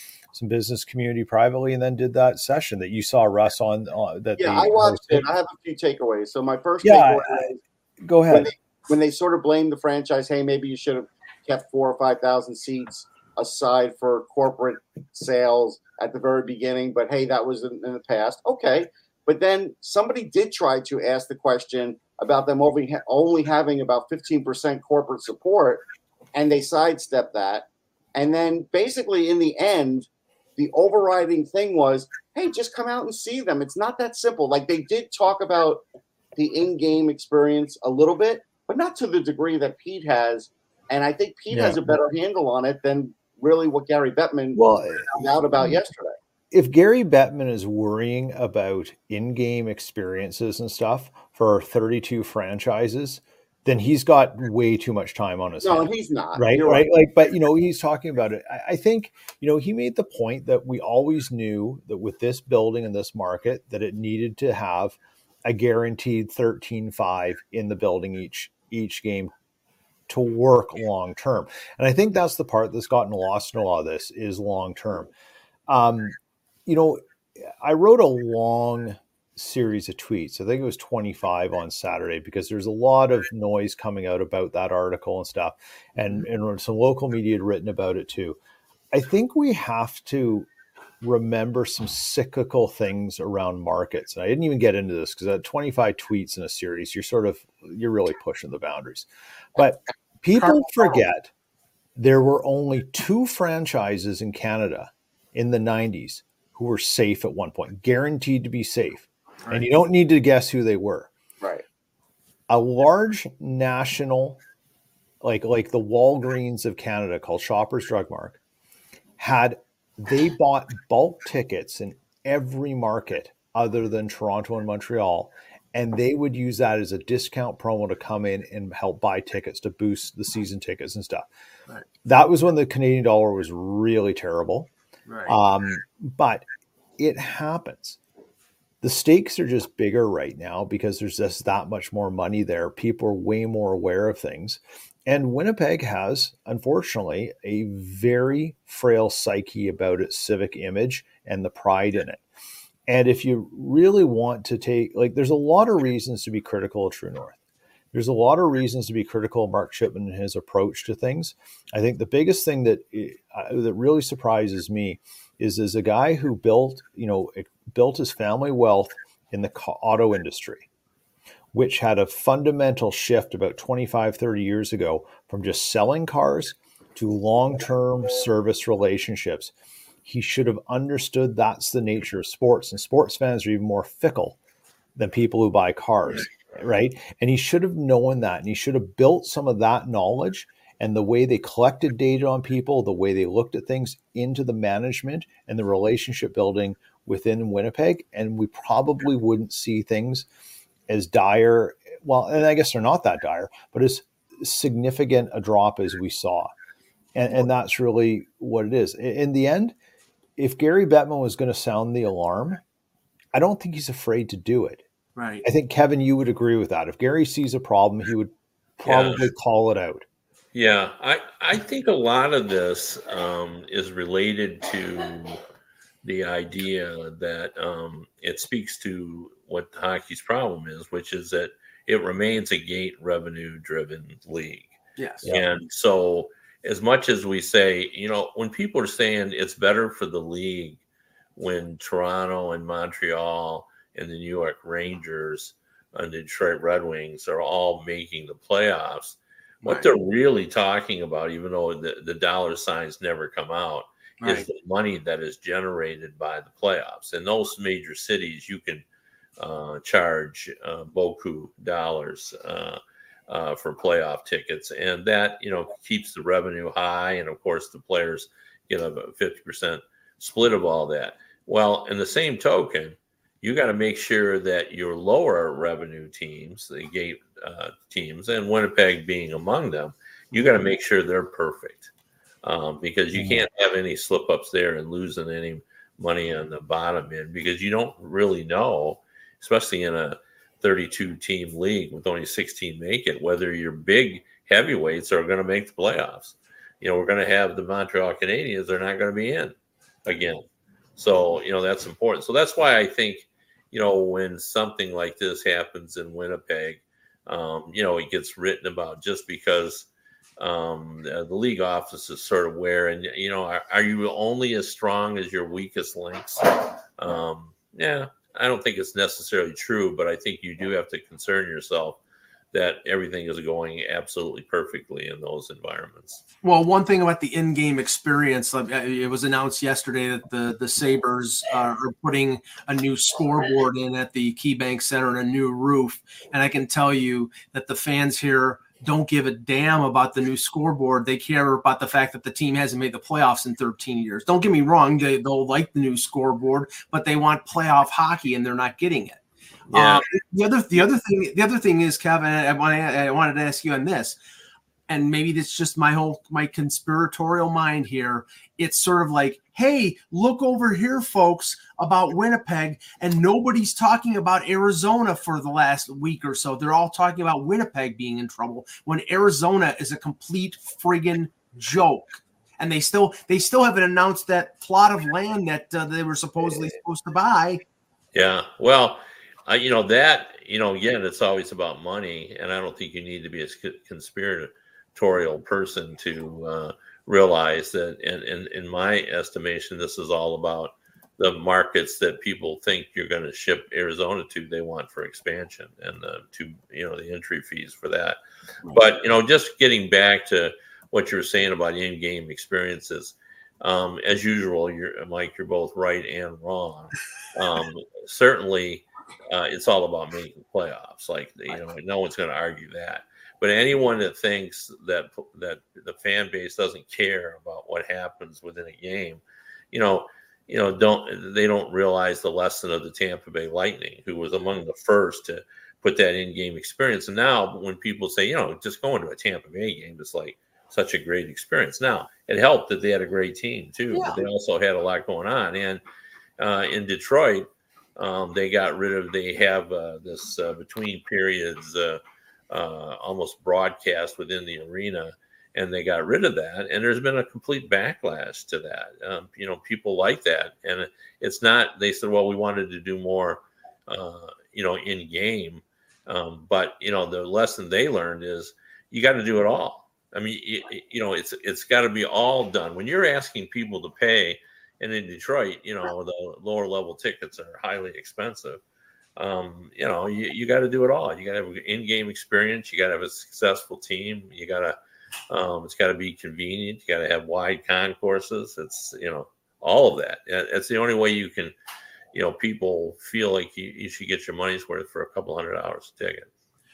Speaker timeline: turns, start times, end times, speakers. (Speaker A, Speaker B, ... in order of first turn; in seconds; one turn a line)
Speaker A: 0.3-5.2
Speaker B: 4.4-7.6
Speaker A: 6.8-8.5
Speaker B: 8.3-25.8
Speaker B: 26.3-35.8
Speaker B: 36.4-46.1
Speaker A: 41.5-41.8
Speaker A: 44.6-45.0
Speaker A: 46.5-69.3
Speaker B: 55.6-56.8
Speaker A: 70.1-75.1
Speaker A: 75.7-88.4
Speaker A: 88.9-90.5
Speaker A: 91.0-101.3
Speaker C: 100.3-101.0
Speaker A: 102.0-111.1
Speaker A: 112.5-114.4
Speaker A: 115.2-118.4
Speaker A: 119.2-131.3
Speaker A: 132.0-134.7
Speaker C: 135.1-135.4
Speaker A: 135.3-136.4
Speaker A: 137.0-138.0
Speaker A: 138.8-152.2
Speaker A: 152.9-157.4
Speaker A: 157.9-170.7
Speaker A: 171.5-179.5
Speaker A: 180.0-184.4
Speaker A: 184.9-200.2
Speaker A: 200.9-206.5
Speaker A: 207.1-209.7
Speaker A: 210.4-212.6
Speaker A: 213.3-214.8
Speaker C: 215.2-215.4
Speaker A: 215.4-220.0
Speaker D: 218.8-219.3
Speaker D: 220.5-225.4
Speaker D: 226.0-234.7
Speaker C: 235.0-235.3
Speaker D: 235.2-240.8
Speaker D: 241.4-258.8
Speaker C: 249.6-249.9
Speaker C: 254.2-254.5
Speaker D: 259.4-281.9
Speaker D: 282.4-299.5
Speaker A: 283.1-283.4
Speaker D: 300.1-300.4
Speaker D: 301.0-322.0
Speaker D: 322.5-326.2
Speaker C: 326.4-349.2
Speaker D: 349.7-350.0
Speaker C: 349.7-354.2
Speaker C: 354.9-377.6
Speaker D: 378.1-398.2
Speaker D: 398.7-435.8
Speaker C: 433.9-434.2
Speaker D: 436.4-468.6
Speaker D: 469.2-474.8
Speaker D: 475.3-481.5
Speaker D: 482.1-486.3